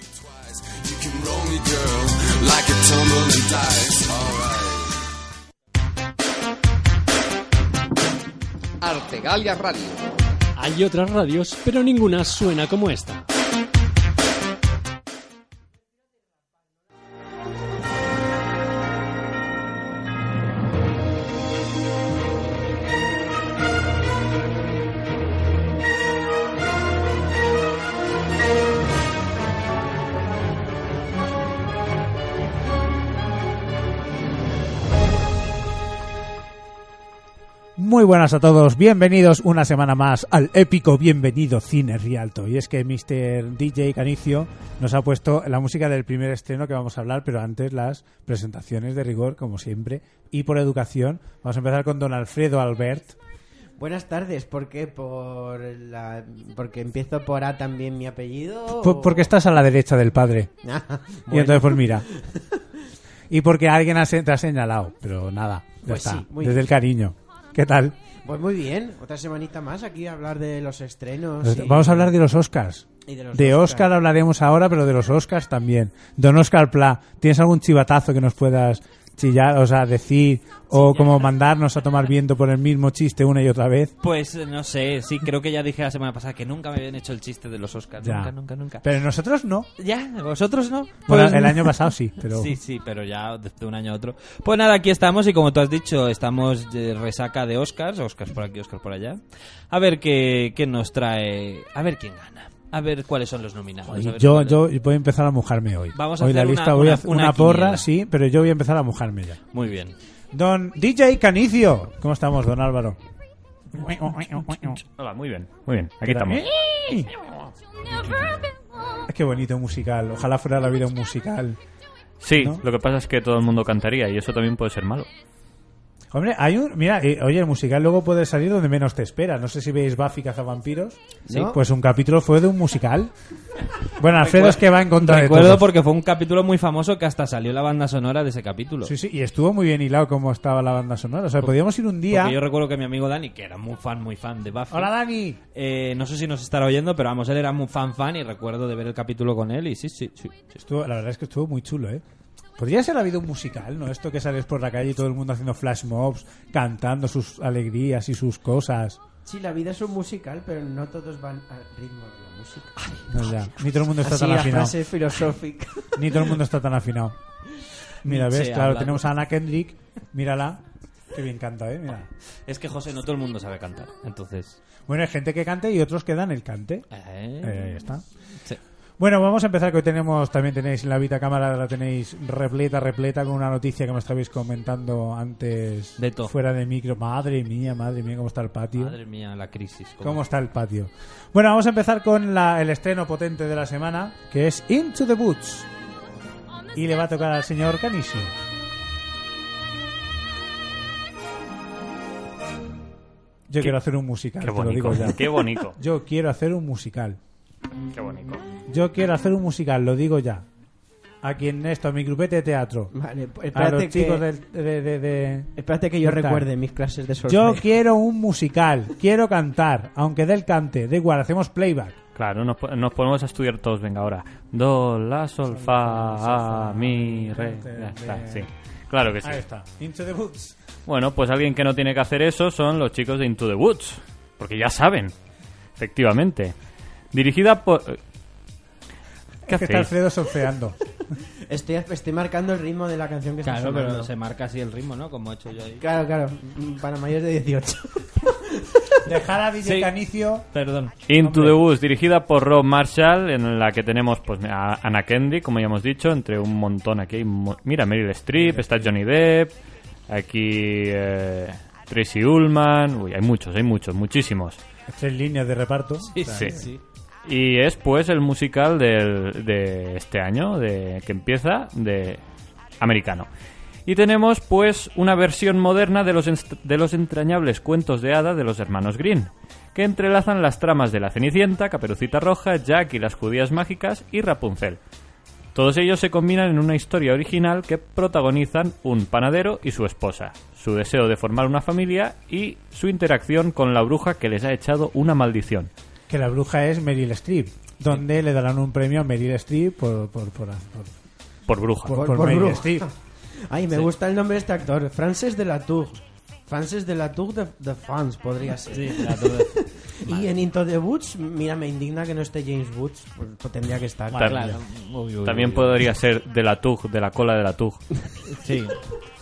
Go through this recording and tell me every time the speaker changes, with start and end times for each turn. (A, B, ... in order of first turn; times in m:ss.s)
0:00.3-0:05.0 A
0:08.8-0:10.0 A
0:10.6-0:13.3 B
0:37.8-0:53.2 C
0:53.8-0:59.3 D
0:58.8-1:00.5 C
1:00.6-1:02.6 D
1:01.3-1:02.1 C
1:03.3-1:08.0 C
1:05.8-1:06.7 D
1:08.2-1:12.1 D
1:11.4-1:23.9 C
1:13.1-1:13.9 D
1:24.0-1:28.8 E
1:28.0-1:29.7 C
1:29.8-1:44.6 E
1:31.1-1:32.6 C
1:43.9-1:49.4 C
1:45.9-1:47.9 E
1:49.5-1:50.0 E
1:50.3-1:53.0 C
1:53.7-1:54.8 C
1:54.7-1:56.5 F
1:56.0-1:57.1 C
1:59.1-2:01.6 C
2:02.2-2:05.1 F
2:02.4-2:02.6 C
2:06.1-2:13.1 C
2:11.3-2:11.6 D
2:13.9-2:15.7 C
2:14.1-2:18.9 E
2:18.8-2:22.4 C
2:22.1-2:24.9 E
2:24.7-2:25.4 C
2:25.5-2:30.5 E
2:30.6-2:32.0 C
2:32.6-2:39.0 C
2:39.2-2:42.8 D
2:43.1-2:44.8 C
2:44.0-2:46.4 D
2:46.0-2:47.2 C
2:48.0-2:52.1 C
2:48.0-2:49.1 E
2:52.5-2:54.6 E
2:54.9-2:56.8 C
2:56.9-2:57.8 E
2:57.4-2:58.0 C
2:59.0-3:09.0 C
3:06.0-3:06.3 E
3:08.8-3:10.2 E
3:10.0-3:15.7 C
3:16.8-3:18.3 C
3:23.5-3:27.2 C
3:24.4-3:25.8 F
3:27.9-3:28.4 F
3:28.7-3:30.4 C
3:31.2-3:32.9 C
3:32.9-3:34.2 D
3:33.5-3:36.5 C
3:35.6-3:37.6 D
3:37.3-3:42.0 C
3:42.2-3:49.4 F
3:45.4-3:48.5 C
3:49.2-3:50.6 C
3:50.9-3:55.1 F
3:55.8-3:56.5 F
3:57.1-3:58.0 F
3:59.5-4:00.8 C
3:59.5-3:59.9 F
4:01.5-4:04.1 D
4:03.4-4:05.8 E
4:05.8-4:09.1 D
4:09.0-4:10.4 C
4:09.6-4:10.9 E
4:11.1-4:19.5 F
4:11.2-4:11.6 C
4:20.1-4:24.6 F
4:24.9-4:26.6 C
4:26.0-4:26.8 E
4:27.3-4:32.2 F
4:32.8-4:33.3 F
4:33.9-4:44.8 F
4:45.5-4:55.7 F
4:56.1-5:01.0 C
5:01.5-5:02.1 F
5:01.8-5:02.9 C
5:01.9-5:14.6 D
5:08.7-5:09.5 E
5:14.1-5:14.6 F
5:14.1-5:15.8 E
5:15.2-5:18.0 F
5:18.3-5:18.8 E